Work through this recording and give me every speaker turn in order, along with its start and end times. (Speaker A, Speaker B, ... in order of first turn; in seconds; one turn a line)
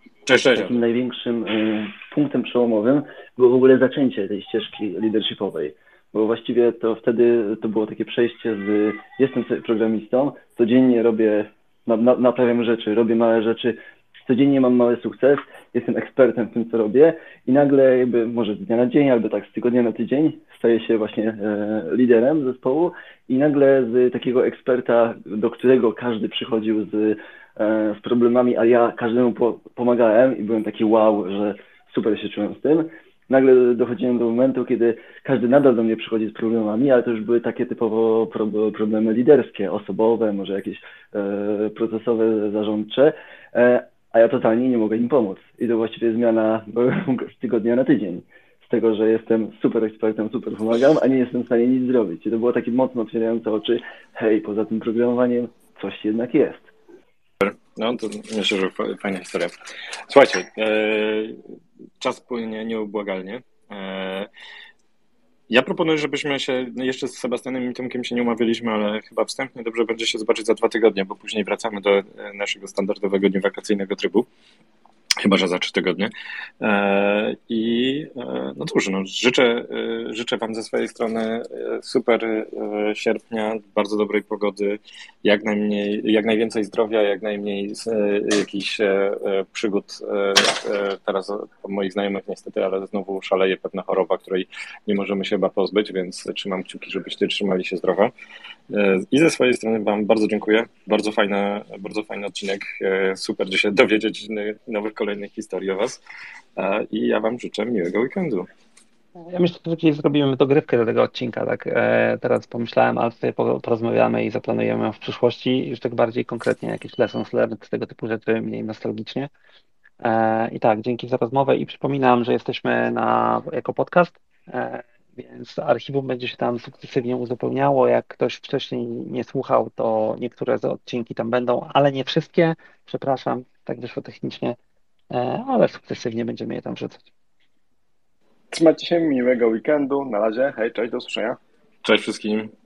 Speaker A: 0.3-0.8
Speaker B: 0.5-56.7
Speaker A: 57.4-59.5
Speaker A: 60.1-61.4
Speaker A: 62.0-64.3
Speaker A: 65.5-74.3
Speaker A: 75.2-98.1
Speaker A: 98.7-106.0
Speaker A: 106.5-108.5
Speaker C: 109.2-119.3
Speaker C: 120.0-134.6
Speaker C: 135.1-137.1
Speaker D: 138.5-141.4
Speaker A: 141.8-142.5